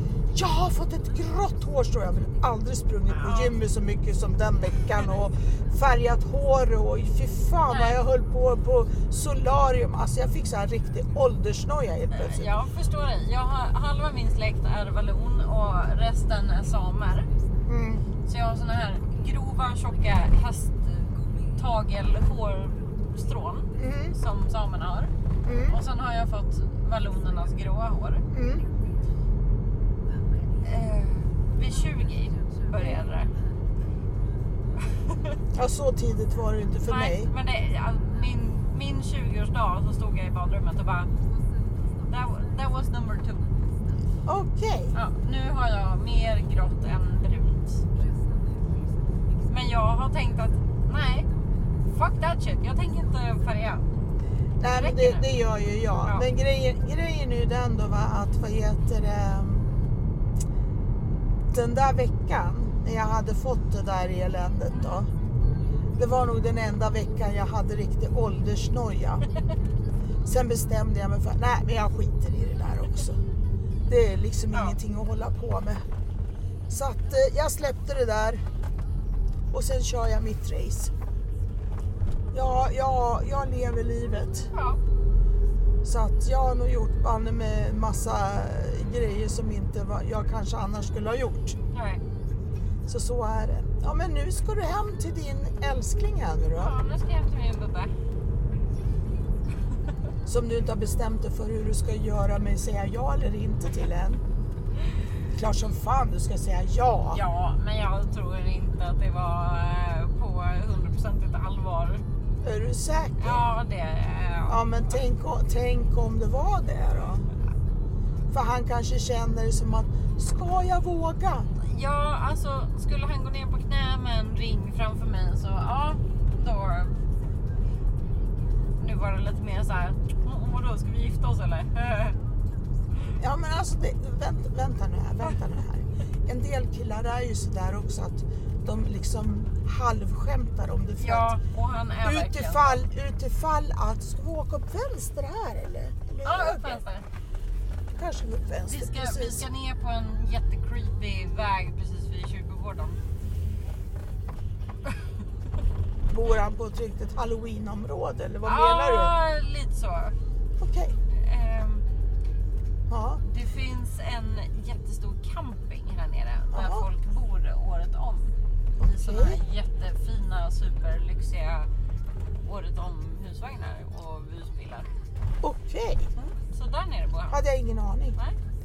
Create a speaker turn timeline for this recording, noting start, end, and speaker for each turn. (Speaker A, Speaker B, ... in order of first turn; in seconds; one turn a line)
Speaker A: 0.3-12.5
Speaker B: 3.1-3.5
Speaker B: 7.7-8.0
Speaker B: 12.1-17.3
Speaker A: 17.6-18.0
Speaker B: 18.2-25.1
Speaker A: 23.8-24.1
Speaker A: 25.4-25.8
Speaker B: 25.6-28.2
Speaker A: 28.3-28.7
Speaker B: 30.6-33.3
Speaker A: 35.5-37.3
Speaker B: 36.8-41.1
Speaker B: 42.1-43.5
Speaker A: 44.2-45.0
Speaker B: 44.9-47.9
Speaker B: 49.5-51.3
Speaker B: 51.9-53.8
Speaker A: 54.6-59.7
Speaker B: 54.7-55.2
Speaker A: 61.5-65.1
Speaker B: 64.7-65.0
Speaker A: 66.0-69.2
Speaker A: 70.2-73.2
Speaker A: 73.9-75.8
Speaker A: 76.7-78.4
Speaker A: 79.5-80.9
Speaker A: 82.3-84.5
Speaker B: 84.5-84.8
Speaker A: 85.8-91.6
Speaker B: 91.7-92.0
Speaker A: 92.9-96.7
Speaker B: 96.5-97.9
Speaker A: 100.2-104.2
Speaker A: 105.3-107.2
Speaker B: 107.1-112.0
Speaker A: 112.4-113.5
Speaker B: 113.2-115.0
Speaker A: 114.5-117.3
Speaker A: 118.3-121.5
Speaker B: 121.6-127.0
Speaker B: 128.8-132.2
Speaker A: 133.2-141.3
Speaker B: 141.0-142.9
Speaker A: 142.0-146.8
Speaker B: 146.2-147.0
Speaker A: 147.9-149.4
Speaker B: 148.7-153.0
Speaker A: 156.1-159.1
Speaker B: 158.4-160.2
Speaker A: 160.6-160.9
Speaker B: 161.1-161.8
Speaker A: 162.9-163.2
Speaker B: 163.2-171.7
Speaker A: 166.5-166.9
Speaker A: 168.8-169.4
Speaker B: 172.4-174.9
Speaker A: 175.4-176.1
Speaker B: 176.2-177.4
Speaker A: 177.3-178.2